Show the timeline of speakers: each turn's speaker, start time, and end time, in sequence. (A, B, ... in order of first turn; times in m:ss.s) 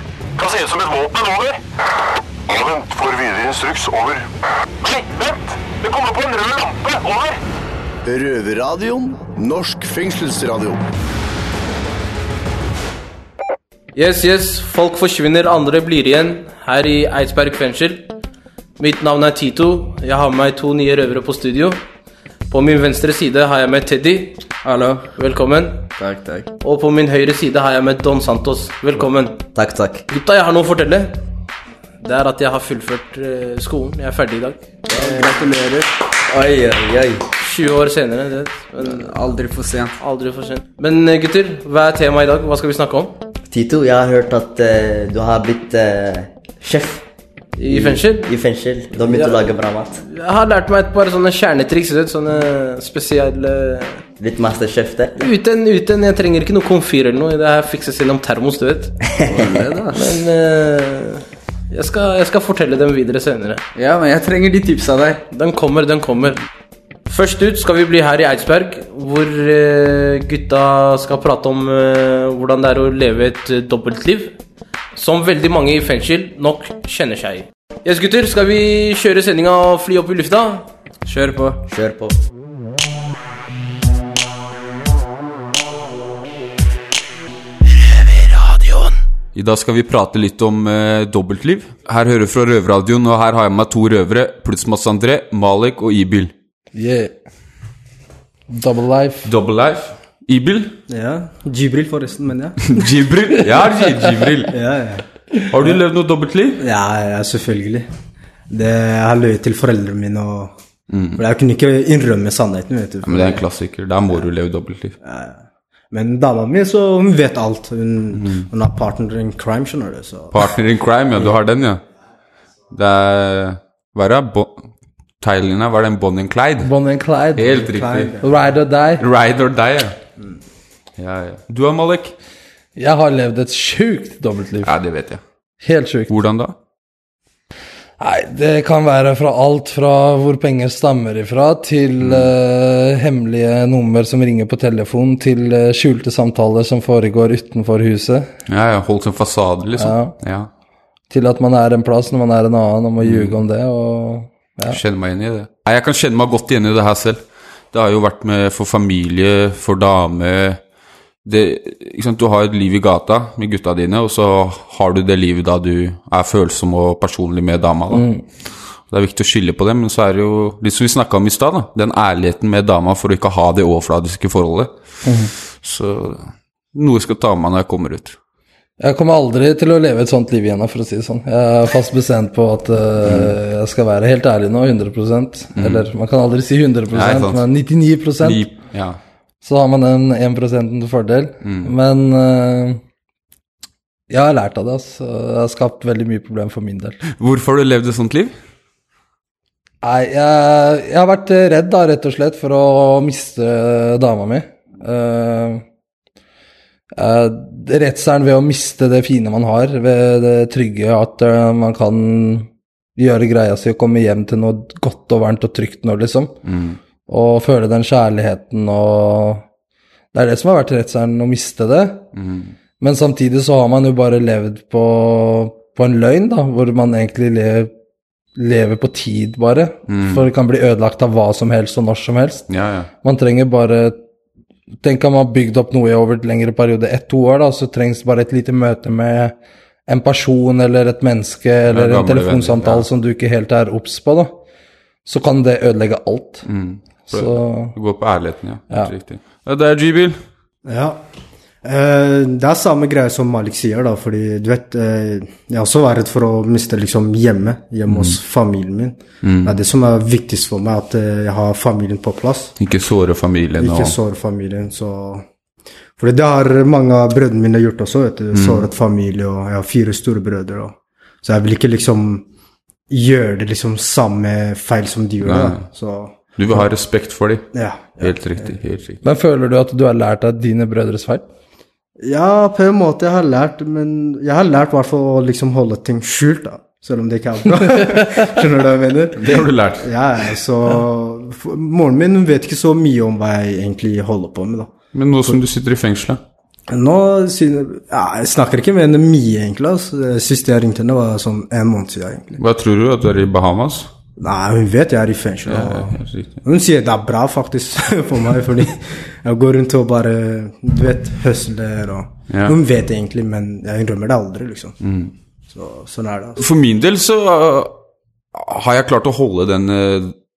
0:00.4-0:01.6 A
0:02.5-0:04.2 A
0:04.8-0:07.4 A
0:08.0-0:10.8 B
0:13.9-0:18.1 C
0:18.8-0:21.8 C
0:22.5-0:24.4 C
0:24.6-0:25.1 D
0:25.1-0:25.8 C
0:26.0-0:26.5 D
0:26.6-0:29.4 C
0:29.5-0:30.0 E
0:30.1-0:31.2 C
0:32.0-0:35.4 C
0:34.9-0:35.9 D
0:36.3-0:37.2 E
0:37.4-0:39.0 C
0:38.8-0:39.9 D
0:40.0-0:43.2 C
0:43.5-0:47.0 E
0:47.6-0:48.4 C
0:47.7-0:50.0 E
0:49.0-0:49.5 C
0:50.0-0:54.0 C
0:54.2-0:55.2 E
0:55.2-0:58.9 C
0:59.4-1:00.0 D
0:59.9-1:03.6 C
1:03.7-1:05.2 D
1:05.3-1:06.4 C
1:07.1-1:14.4 C
1:14.9-1:20.7 C
1:21.0-1:21.6 D
1:21.7-1:22.2 E
1:28.3-1:28.8 C
1:29.3-1:36.3 F
1:36.7-1:37.1 G
1:38.5-1:39.3 G
1:39.2-1:40.8 F
1:40.9-1:42.6 H
1:42.6-1:44.6 F
1:44.5-1:45.0 H
1:45.5-1:46.6 F
1:46.6-1:47.9 H
1:48.5-1:50.5 H
1:50.9-1:51.2 F
1:51.2-1:53.4 H
1:53.0-1:55.0 F
1:55.0-1:55.4 H
1:55.9-2:00.4 H
1:58.2-1:58.4 F
2:00.3-2:01.8 F
2:02.7-2:04.6 F
2:05.2-2:06.7 F
2:06.6-2:07.6 G
2:07.4-2:08.1 F
2:07.6-2:08.2 H
2:08.2-2:09.0 G
2:09.0-2:09.9 F
2:11.0-2:12.1 F
2:12.8-2:14.7 G
2:14.6-2:15.2 F
2:15.6-2:16.1 G
2:16.1-2:16.5 F
2:18.0-2:28.3 G
2:22.0-2:22.3 F
2:28.5-2:30.5 F
2:29.8-2:30.1 G
2:31.1-2:34.8 G
2:33.0-2:33.3 F
2:34.7-2:37.2 F
2:37.7-2:40.6 F
2:41.2-2:48.1 F
2:47.9-2:48.2 G
2:48.9-2:54.7 F
2:55.0-2:55.3 G
2:55.6-2:58.2 F
2:58.8-3:08.4 G
3:03.0-3:03.3 F
3:05.6-3:05.9 F
3:06.9-3:07.4 F
3:08.2-3:09.0 F
3:09.4-3:12.8 G
3:11.4-3:11.7 F
3:14.1-3:17.0 G
3:17.2-3:18.3 F
3:19.8-3:25.6 G
3:27.0-3:36.3 G
3:36.4-3:36.8 F
3:37.1-3:39.4 G
3:40.1-3:42.0 G
3:42.2-3:42.5 F
3:42.8-3:47.7 G
3:48.4-3:52.4 G
3:49.9-3:50.2 F
3:52.5-3:52.9 F
3:53.0-3:54.0 G
3:54.8-3:59.3 G
3:59.9-4:04.3 G
4:01.7-4:02.8 F
4:05.0-4:06.4 G
4:06.4-4:10.2 F
4:07.1-4:07.7 G
4:10.6-4:11.0 H
4:11.6-4:22.5 H
4:17.9-4:18.2 F
4:19.2-4:19.6 F
4:22.6-4:24.0 F
4:23.6-4:25.2 H
4:26.0-4:32.2 H
4:28.3-4:28.7 F
4:32.9-4:36.6 H
4:35.2-4:35.6 F
4:36.3-4:37.5 F
4:37.5-4:38.5 H
4:38.0-4:39.0 F
4:39.0-4:41.2 G
4:42.0-4:54.7 H
4:49.2-4:49.9 F
4:54.9-4:56.2 F
4:56.7-5:02.4 H
5:02.4-5:03.9 F
5:04.2-5:14.8 H
5:05.5-5:06.3 F
5:12.3-5:12.6 F
5:14.8-5:15.1 F
5:15.5-5:16.4 H
5:16.4-5:17.8 F
5:18.3-5:20.1 F